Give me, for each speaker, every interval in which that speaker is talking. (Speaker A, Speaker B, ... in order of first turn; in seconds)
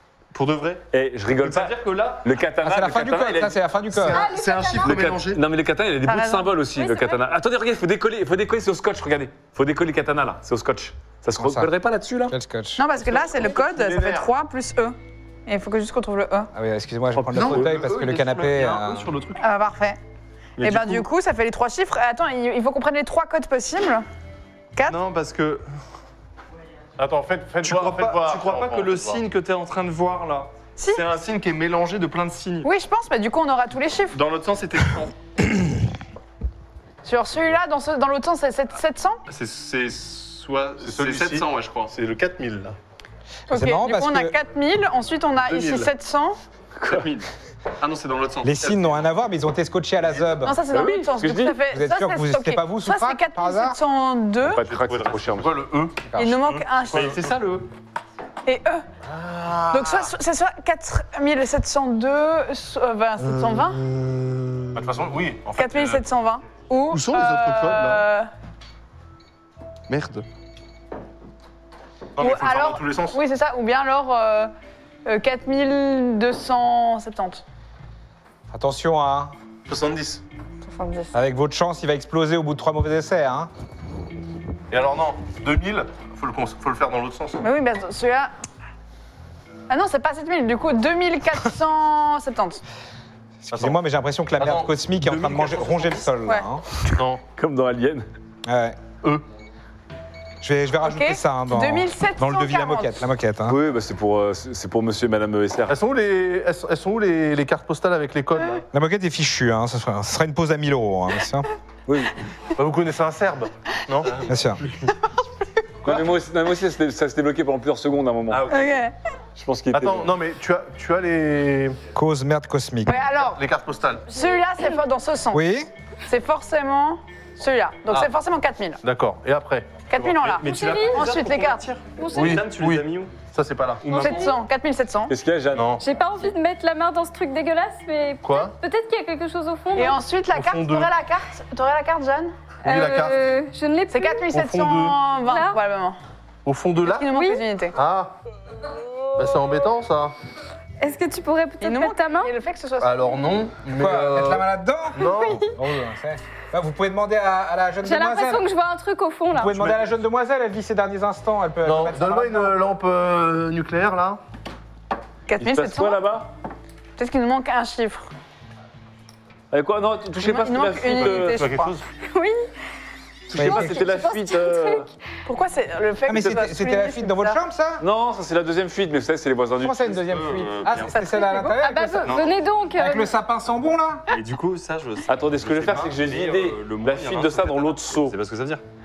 Speaker A: 0.3-0.8, 1.4-2.3, 4.1-5.4, 17.3-19.4, 20.6-21.0, 24.9-25.6, 27.6-32.7, 34.1-35.1, 39.3-41.9, 46.9-47.3, 47.8-49.0, 54.8-55.1, 56.9-57.7, 63.2-64.8, 66.9-68.0, 69.9-70.2, 95.2-95.7, 130.0-133.2, 133.8-134.2, 180.0-181.0, 182.0-182.4, 184.1-188.6
Speaker B: 0.9-3.5, 4.8-12.4, 13.6-14.1, 17.1-17.8, 20.6-21.0, 46.8-47.1, 50.7-51.6, 54.4-55.5, 97.4-98.1, 103.5-105.8, 111.9-112.1, 115.8-118.6, 119.4-120.1, 135.1-135.7, 165.4-166.3, 169.5-171.4, 173.3-174.9, 177.8-180.0, 185.1-188.2
Speaker C: 2.6-4.3, 11.4-11.7, 12.3-12.8, 16.5-19.1, 43.5-44.4, 48.4-50.6, 51.7-53.8, 78.5-79.3, 81.1-83.5, 93.4-96.6, 98.5-98.8, 100.4-103.6, 108.7-111.5, 114.2-114.6, 121.9-123.0, 125.3-125.7, 153.8-158.4, 159.3-162.6, 173.3-173.9, 176.1-177.8, 179.6-182.2, 182.8-184.1
Speaker D: 4.0-5.2, 27.0-29.2, 40.8-42.8, 54.9-57.2, 59.1-60.1, 64.8-66.0, 72.2-73.2, 79.7-80.2, 84.7-87.4, 94.4-96.0, 96.9-97.2, 105.7-108.7, 112.6-114.3, 118.3-118.6, 119.7-121.8, 123.1-124.1, 128.8-129.9, 132.1-134.1, 135.5-135.8, 138.2-138.6, 140.3-140.9, 142.6-143.3, 144.3-145.0, 146.4-147.1, 147.7-148.1, 149.2-150.1, 152.8-155.4, 161.6-164.2, 171.0-171.8
Speaker E: 4.1-5.0, 6.8-7.2, 124.1-124.4, 130.4-131.1, 132.0-132.5, 133.9-134.3, 135.8-140.0, 142.6-144.3, 145.3-145.6, 147.1-147.4, 150.8-152.3, 155.0-155.6, 157.8-159.6, 172.0-172.4, 173.3-174.9, 181.0-183.1
Speaker F: 6.0-6.5, 12.8-15.0, 15.5-16.5, 19.4-20.0, 20.6-24.1, 30.8-31.1, 32.6-34.2, 37.0-39.2, 43.5-46.4, 50.4-54.6, 56.1-57.2, 58.5-58.9, 59.7-63.8, 65.6-68.3, 72.2-74.5, 75.1-77.4, 80.6-81.1, 87.4-88.3, 89.7-92.6, 100.8-103.1, 118.5-118.9, 122.8-123.4, 124.1-125.4, 126.1-128.8, 129.9-131.7, 133.9-135.1, 139.7-142.3, 143.9-146.0, 146.8-147.8, 151.6-153.2, 165.3-166.2, 167.0-168.1, 170.2-171.8, 175.3-177.4